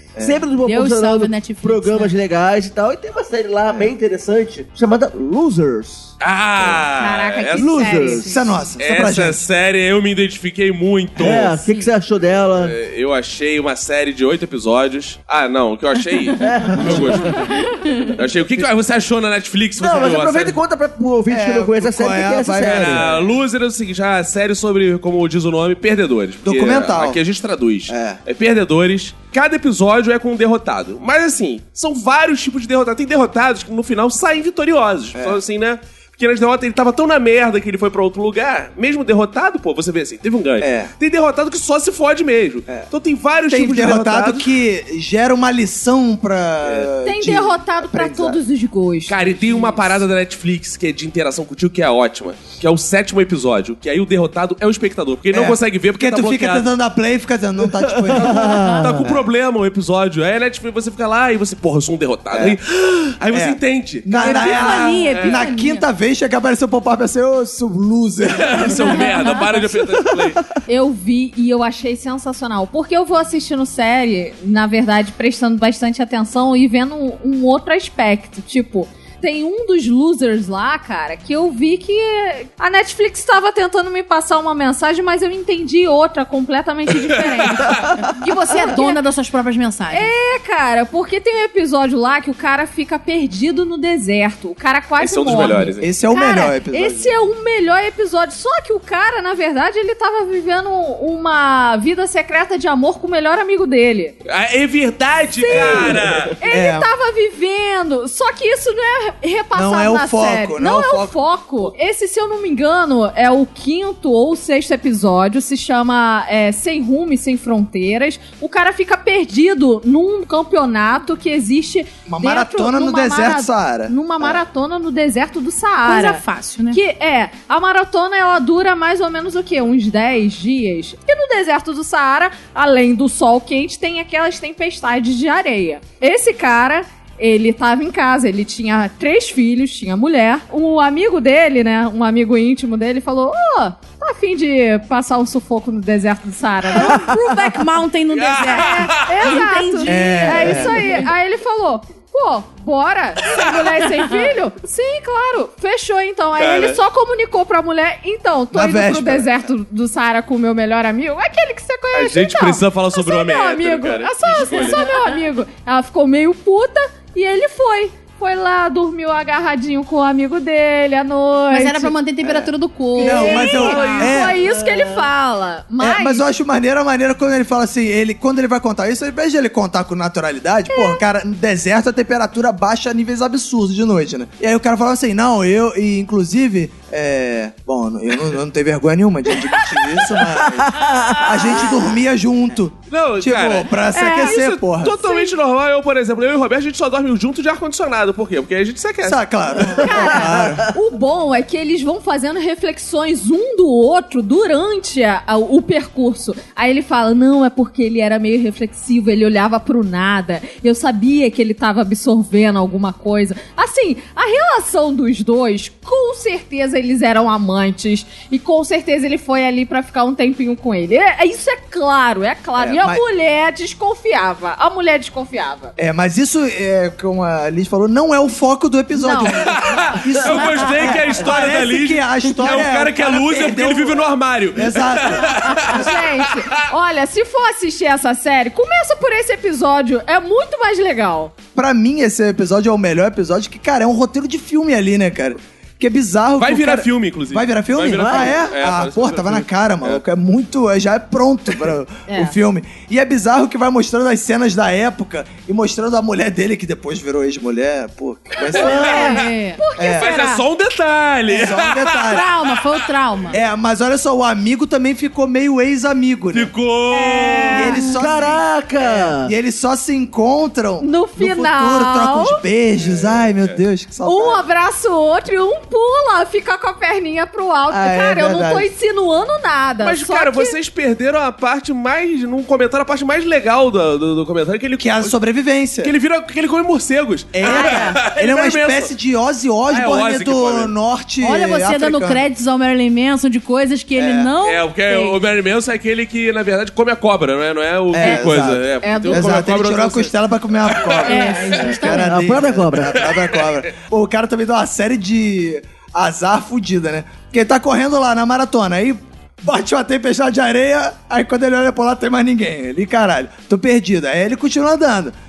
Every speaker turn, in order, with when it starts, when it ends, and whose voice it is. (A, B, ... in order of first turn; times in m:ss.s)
0:00.2-0:00.4 A
0:00.2-0:06.1 B
0:00.6-0:02.1 C
0:06.2-0:08.0 D
0:07.0-0:08.5 E
0:07.5-0:08.4 B
0:08.2-0:09.4 A
0:08.8-0:11.6 D
0:11.2-0:12.7 B
0:12.5-0:17.4 D
0:16.4-0:17.5 B
0:18.0-0:20.6 D
0:19.8-0:23.0 B
0:21.3-0:23.2 A
0:22.6-0:44.5 D
0:26.4-0:27.2 A
0:27.9-0:28.2 A
0:40.6-0:40.9 A
0:43.5-0:48.4 A
0:46.6-0:46.9 D
0:47.0-0:49.9 E
0:49.1-0:56.7 D
0:55.3-0:59.2 A
0:57.8-0:59.1 B
0:58.8-1:05.4 D
1:02.3-1:02.6 A
1:03.3-1:09.1 A
1:04.2-1:05.8 C
1:08.3-1:10.4 D
1:10.6-1:29.0 E
1:27.5-1:27.8 D
1:28.0-1:30.1 C
1:29.9-1:44.1 E
1:35.0-1:35.9 D
1:35.8-1:37.2 A
1:44.2-1:46.4 D
1:45.3-2:27.2 E
1:45.5-1:46.9 A
1:49.5-1:51.1 A
2:02.0-2:04.4 A
2:05.8-2:06.8 C
2:26.7-2:31.0 C
2:28.1-2:29.3 D
2:28.5-2:51.9 E
2:29.8-2:30.8 A
2:36.4-2:36.8 D
2:38.5-2:39.3 A
2:41.9-2:44.8 D
2:44.3-2:45.2 C
2:51.5-2:54.1 C
2:52.2-2:54.4 A
2:52.9-2:56.2 E
2:53.5-2:55.1 B
2:53.8-2:54.1 D
2:55.8-3:15.0 A
3:00.7-3:01.0 E
3:10.5-3:11.3 B
3:12.9-3:19.8 D
3:14.0-3:14.4 E
3:19.0-3:20.7 A
3:19.8-3:45.7 E
3:42.6-3:43.0 A
3:45.8-3:55.4 A
3:48.9-3:50.5 E
3:49.3-3:56.6 D
3:55.3-4:01.3 E
4:01.6-4:19.0 A
4:06.4-4:10.0 D
4:07.9-4:08.4 B
4:12.1-4:12.3 E
4:18.5-4:20.4 E
4:18.5-4:19.3 D
4:18.6-4:19.6 C
4:19.8-4:20.1 A
4:19.9-4:22.7 D
4:21.3-4:22.3 A
4:22.0-4:23.4 C
4:23.3-4:26.5 A
4:26.3-4:27.7 D
4:26.9-4:27.9 E
4:27.5-4:34.4 A
4:27.8-4:29.3 B
4:30.8-4:32.4 E
4:32.8-4:33.6 D
4:34.0-4:40.6 E
4:37.7-4:38.7 A
4:39.8-4:45.2 D
4:44.8-4:45.9 A
4:45.8-4:48.9 D
4:47.3-4:52.2 A
4:47.5-4:47.8 C
4:47.6-4:47.9 E
4:49.7-4:50.7 D
4:51.2-4:55.2 C
4:54.0-4:54.3 A
4:54.4-5:01.7 D
4:57.9-5:15.1 A
4:58.0-4:59.5 E
5:01.0-5:02.2 C
5:01.0-5:02.1 E
5:01.9-5:03.0 B
5:02.8-5:03.6 D